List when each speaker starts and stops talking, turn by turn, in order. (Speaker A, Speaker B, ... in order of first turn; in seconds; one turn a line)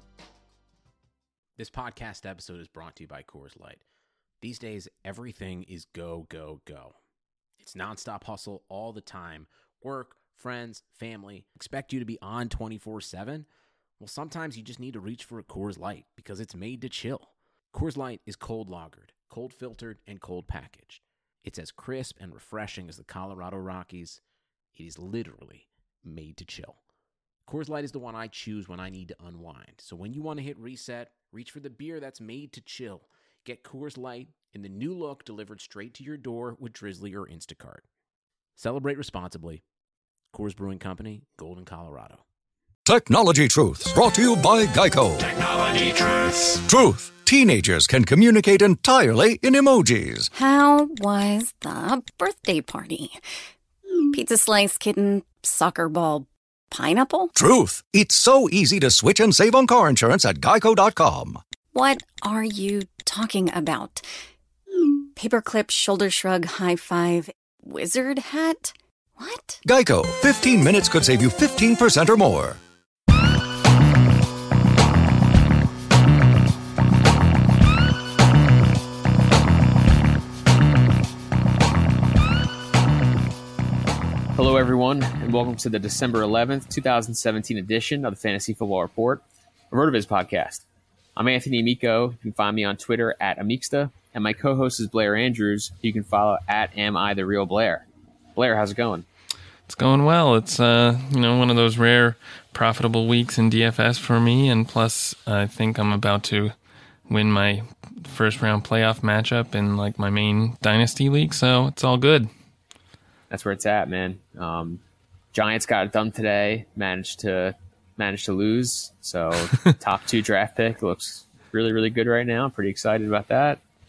Speaker A: 1.6-3.8
Speaker A: 4.4-7.0
Speaker A: 7.6-13.5
Speaker A: 14.0-24.2
Speaker A: 24.7-26.8
Speaker A: 27.5-37.9
Speaker A: 38.6-39.6
Speaker A: 40.3-42.2
Speaker B: 42.9-50.3
Speaker C: 50.3-53.2
Speaker C: 54.1-57.3
Speaker B: 57.4-61.4
Speaker C: 61.7-64.0
Speaker C: 65.2-69.6
Speaker B: 69.7-72.6
Speaker D: 84.3-90.6
Speaker D: 91.2-99.1
Speaker E: 99.7-106.5
Speaker E: 107.1-112.3
Speaker D: 113.3-114.8
Speaker D: 115.3-123.6